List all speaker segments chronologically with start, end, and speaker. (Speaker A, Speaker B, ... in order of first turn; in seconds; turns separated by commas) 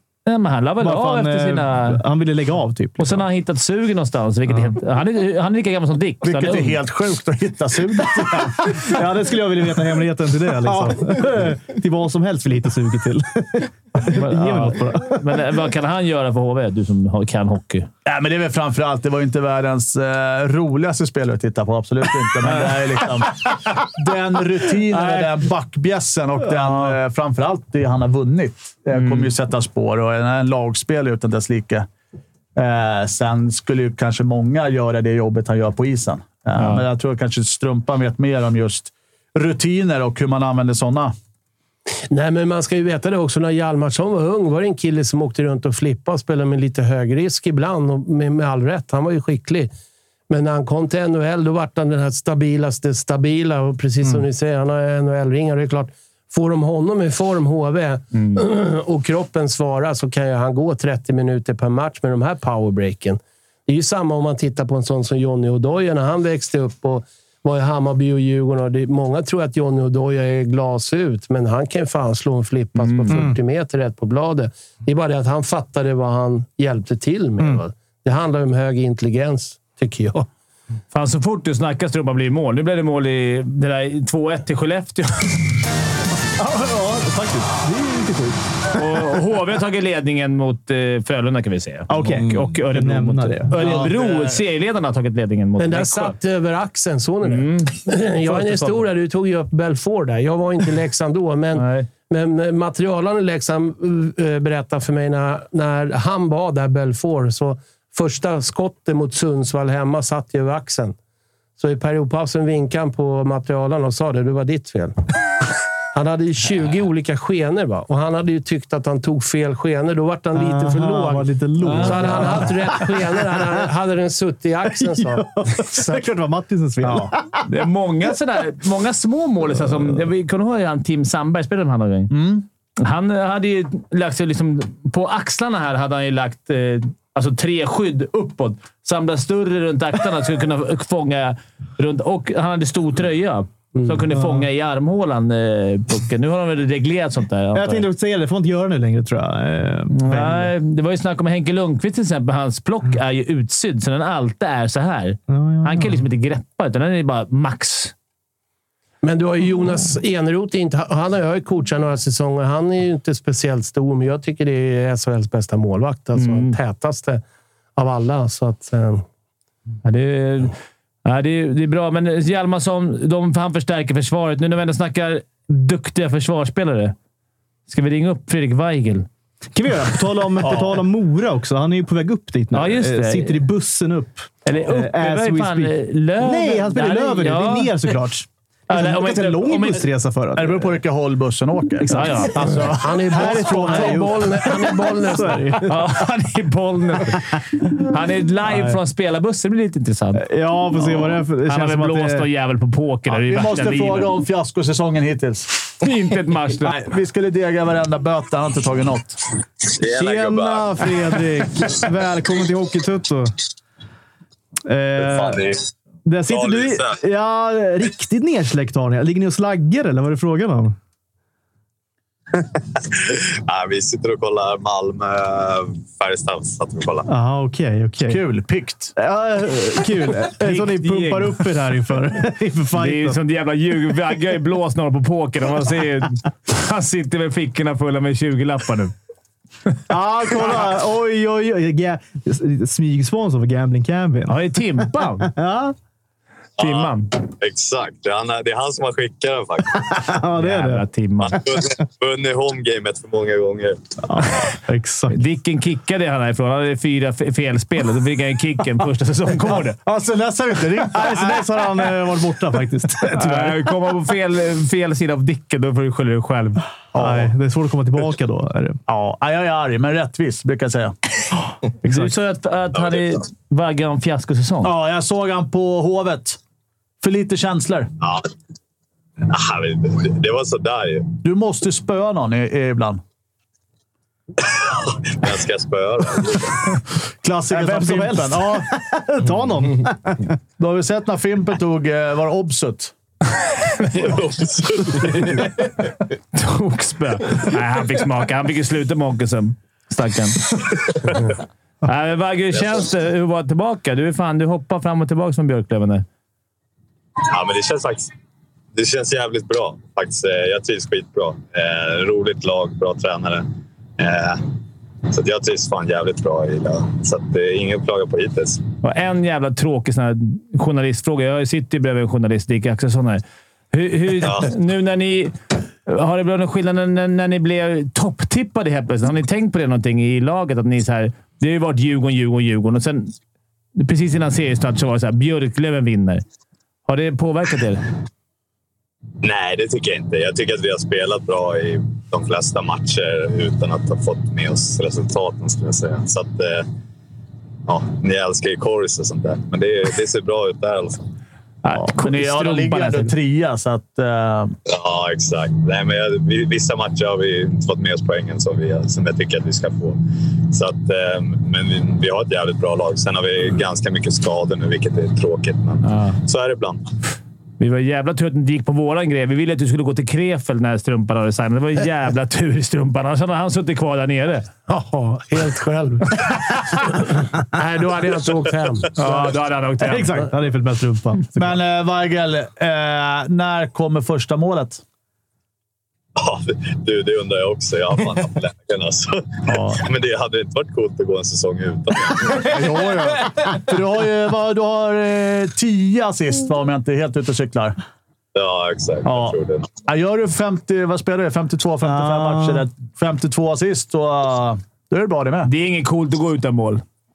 Speaker A: 0.2-2.0, Speaker B: 0.8-3.2, Speaker A: 3.0-6.8, Speaker C: 6.2-8.9, Speaker B: 8.6-15.3, Speaker A: 14.1-17.9, Speaker C: 18.0-31.9, Speaker B: 24.9-25.3, Speaker A: 28.9-29.3, Speaker C: 32.5-41.1, Speaker A: 36.5-36.8, Speaker D: 42.1-49.7, Speaker D: 50.3-80.3, Speaker A: 72.8-73.2, Speaker B: 73.1-73.4, Speaker A: 80.9-85.4, Speaker B: 86.3-88.4, Speaker A: 88.7-96.1, Speaker B: 91.9-93.9, Speaker C: 93.5-94.4, Speaker D: 95.6-110.9, Speaker A: 97.2-98.8, Speaker A: 101.5-101.9, Speaker D: 111.6-114.9, Speaker D: 115.9-126.0, Speaker B: 120.3-123.6, Speaker A: 121.6-122.5, Speaker B: 124.7-127.4, Speaker C: 126.8-127.2, Speaker A: 127.4-132.1, Speaker C: 132.1-132.4, Speaker A: 132.8-147.9, Speaker B: 144.1-144.4, Speaker B: 147.5-150.5, Speaker A: 149.9-157.9, Speaker B: 155.3-156.0, Speaker D: 159.0-167.2, Speaker A: 166.2-166.6, Speaker D: 167.8-169.0, Speaker A: 169.8-176.9, Speaker A: 177.7-179.1, Speaker B: 179.5-190.8, Speaker C: 180.4-180.8, Speaker A: 182.5-183.4, Speaker A: 184.4-187.9, Speaker A: 188.7-189.9, Speaker C: 190.3-194.1, Speaker A: 191.9-192.4, Speaker D: 192.6-195.7, Speaker B: 193.1-195.8, Speaker A: 195.6-200.2, Speaker B: 198.5-198.8, Speaker B: 200.2-202.3, Speaker A: 200.8-204.1, Speaker C: 203.1-205.5, Speaker A: 205.8-206.8, Speaker C: 206.6-209.2, Speaker E: 209.7-210.9, Speaker B: 209.8-213.3, Speaker B: 214.7-215.4, Speaker E: 215.0-215.6, Speaker B: 216.0-220.8, Speaker E: 216.3-217.0, Speaker E: 222.8-227.1, Speaker B: 227.1-228.2, Speaker C: 228.1-228.9, Speaker B: 228.9-233.2, Speaker A: 230.4-231.4, Speaker A: 232.7-238.9, Speaker B: 239.9-245.7, Speaker A: 244.3-245.3, Speaker A: 246.6-247.1, Speaker E: 246.6-250.0, Speaker B: 249.8-250.8, Speaker A: 250.4-251.4, Speaker E: 251.2-253.8, Speaker B: 254.1-255.2, Speaker A: 255.1-259.8, Speaker C: 259.8-261.5, Speaker B: 260.8-263.6, Speaker A: 263.2-266.6, Speaker C: 266.9-267.3, Speaker B: 266.9-268.8, Speaker C: 268.9-270.9, Speaker B: 271.8-272.1, Speaker A: 271.8-274.7, Speaker C: 274.6-276.4, Speaker C: 277.0-277.9, Speaker E: 278.0-278.3, Speaker E: 279.2-281.1, Speaker C: 281.2-283.0, Speaker E: 284.5-286.8, Speaker C: 287.2-288.6, Speaker B: 287.5-290.4, Speaker C: 290.6-292.9, Speaker E: 293.8-295.7, Speaker A: 296.3-300.9, Speaker A: 301.8-306.0, Speaker E: 307.2-308.1, Speaker E: 308.7-313.5, Speaker E: 314.0-314.4, Speaker E: 315.1-318.6, Speaker A: 318.8-325.3, Speaker E: 324.2-324.5, Speaker A: 325.9-333.1, Speaker A: 333.8-336.2, Speaker A: 336.9-337.9, Speaker E: 339.2-346.7, Speaker E: 347.7-351.0, Speaker A: 351.6-353.1, Speaker C: 351.9-354.6, Speaker E: 354.7-366.8, Speaker A: 365.8-366.2, Speaker A: 367.6-374.5, Speaker D: 374.7-378.9, Speaker A: 378.9-380.2, Speaker B: 379.1-381.5, Speaker C: 381.4-384.8, Speaker E: 386.2-392.5, Speaker C: 389.5-389.8, Speaker C: 392.3-397.8, Speaker E: 398.3-399.7, Speaker C: 399.0-405.5, Speaker B: 401.8-402.6, Speaker A: 405.4-406.8